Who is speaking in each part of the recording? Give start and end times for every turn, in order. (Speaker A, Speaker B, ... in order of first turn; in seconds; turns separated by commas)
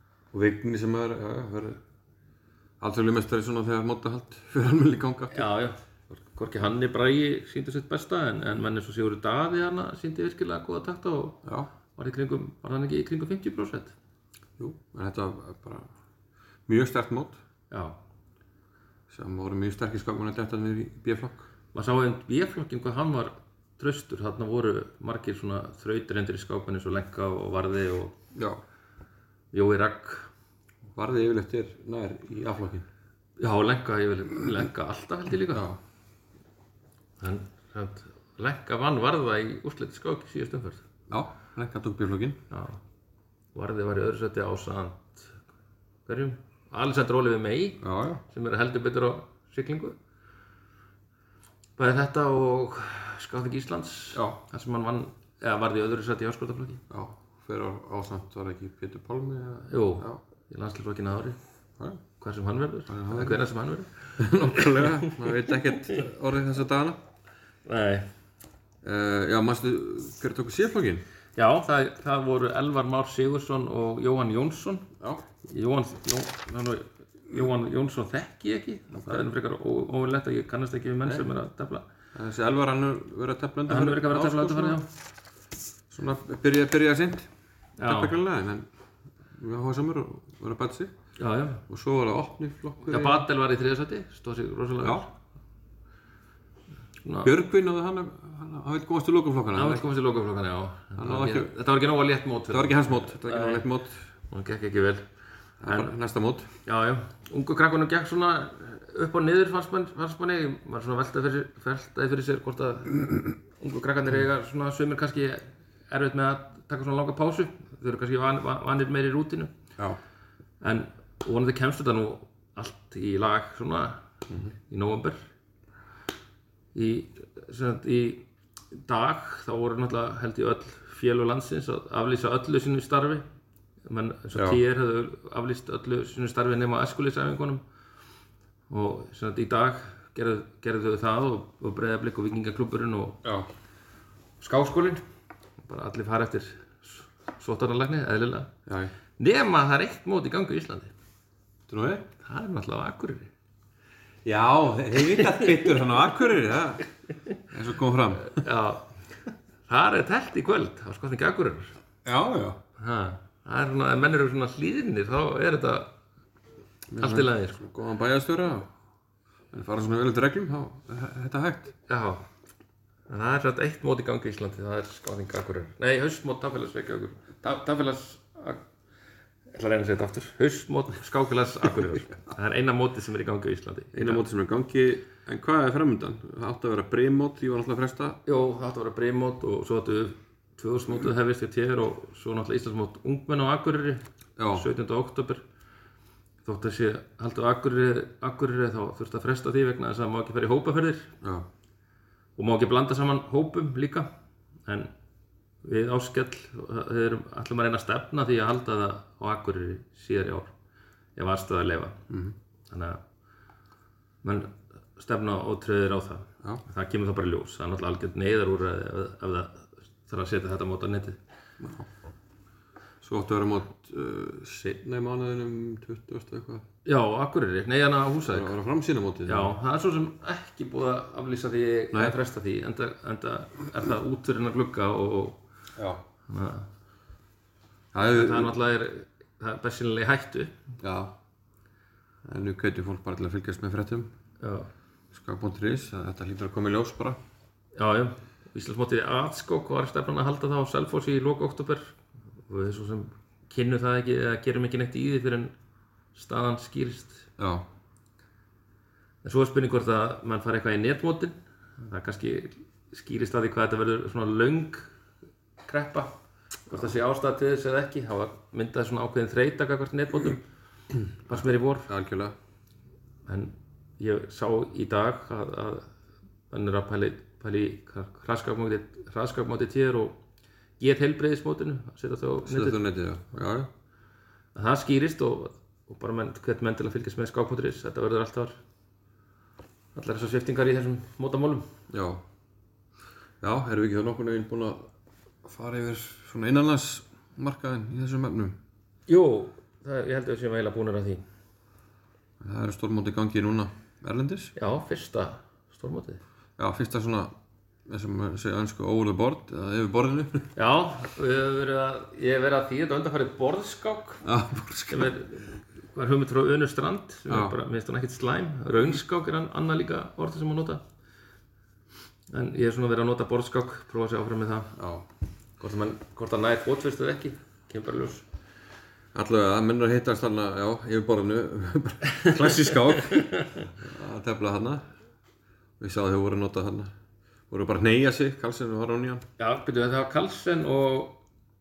Speaker A: 0.3-1.8, Speaker A: 2.8-5.5, Speaker B: 5.3-11.4, Speaker A: 11.4-11.7, Speaker B: 11.9-13.9, Speaker A: 14.6-15.9, Speaker A: 16.7-17.4, Speaker B: 17.7-18.0, Speaker A: 19.1-21.5, Speaker B: 21.7-28.1, Speaker A: 28.3-28.6, Speaker B: 29.5-30.3, Speaker A: 30.9-32.9, Speaker B: 33.4-35.6, Speaker A: 35.5-35.8, Speaker B: 37.2-40.8, Speaker A: 41.1-42.4, Speaker B: 42.5-42.8, Speaker B: 43.5-45.3, Speaker B: 46.0-49.9, Speaker A: 47.8-48.2, Speaker B: 51.8-56.8, Speaker A: 54.1-54.4, Speaker A: 56.9-60.2, Speaker B: 59.7-61.4, Speaker B: 62.2-66.0, Speaker A: 62.9-63.5, Speaker A: 64.2-67.0, Speaker B: 67.7-68.0, Speaker A: 68.8-71.0, Speaker B: 71.3-74.9, Speaker B: 75.4-81.8, Speaker A: 82.1-84.8, Speaker B: 83.7-84.8, Speaker A: 85.9-87.3, Speaker B: 87.8-88.2, Speaker A: 87.8-88.7, Speaker A: 89.3-90.9, Speaker B: 91.2-91.6, Speaker A: 91.7-93.2, Speaker B: 92.9-95.1, Speaker B: 97.0-97.3, Speaker A: 97.2-99.8, Speaker B: 99.5-103.7, Speaker A: 101.0-101.5, Speaker A: 102.5-104.0, Speaker B: 104.3-105.0, Speaker A: 105.6-106.5, Speaker B: 105.7-105.9, Speaker B: 106.6-119.5, Speaker B: 120.6-124.0, Speaker B: 124.5-125.2, Speaker B: 126.7-133.2, Speaker B: 133.8-137.6, Speaker A: 134.3-134.6, Speaker B: 138.7-143.2, Speaker B: 144.4-145.0, Speaker B: 145.6-148.5, Speaker A: 148.7-148.9, Speaker B: 149.2-150.9, Speaker A: 151.7-152.1, Speaker B: 152.2-153.3, Speaker A: 154.2-156.8, Speaker B: 155.1-155.7, Speaker A: 157.5-158.4, Speaker B: 158.2-158.8, Speaker B: 159.7-161.8, Speaker A: 162.0-162.6, Speaker B: 162.8-165.9, Speaker A: 166.9-168.7, Speaker B: 167.0-167.6, Speaker A: 169.5-171.7, Speaker B: 171.9-172.2, Speaker B: 173.1-178.6, Speaker B: 179.5-184.2, Speaker A: 183.9-188.2, Speaker B: 188.2-195.4, Speaker A: 194.4-194.7, Speaker B: 196.4-201.1, Speaker A: 201.2-201.4, Speaker B: 202.4-204.1, Speaker B: 204.7-204.9, Speaker B: 205.6-210.5, Speaker B: 211.2-212.0, Speaker A: 212.1-212.3, Speaker B: 212.7-213.0, Speaker B: 214.2-221.2, Speaker A: 221.6-221.9, Speaker A: 223.0-226.6, Speaker B: 226.8-228.5, Speaker A: 228.3-229.5, Speaker B: 229.2-235.4, Speaker A: 231.9-232.2, Speaker A: 235.8-236.0, Speaker B: 236.3-236.7, Speaker A: 237.9-238.5, Speaker B: 238.1-240.6, Speaker A: 240.8-241.1, Speaker A: 242.2-244.1, Speaker B: 244.4-244.7, Speaker A: 245.1-247.2, Speaker B: 247.8-251.9, Speaker B: 252.5-255.5, Speaker B: 256.1-257.3, Speaker A: 257.4-257.6, Speaker B: 259.2-264.9, Speaker B: 265.6-266.1, Speaker B: 266.7-270.4, Speaker A: 271.3-272.3, Speaker B: 271.3-271.9, Speaker B: 273.2-275.9, Speaker B: 276.5-280.2, Speaker B: 280.8-282.8, Speaker A: 282.4-283.7, Speaker B: 284.5-288.6, Speaker B: 289.9-291.7, Speaker A: 291.9-292.2, Speaker A: 293.4-294.9, Speaker A: 295.4-298.6, Speaker B: 299.1-301.2, Speaker A: 302.4-304.5, Speaker B: 304.6-306.2, Speaker A: 306.6-307.3, Speaker A: 307.9-310.5, Speaker B: 310.6-314.2, Speaker A: 314.2-315.1, Speaker B: 314.9-320.8, Speaker A: 317.3-317.5, Speaker B: 322.3-324.7, Speaker A: 324.8-325.1, Speaker B: 325.6-328.2, Speaker A: 329.1-334.8, Speaker B: 332.1-333.7, Speaker A: 335.8-336.9, Speaker A: 337.5-339.2, Speaker B: 339.4-341.2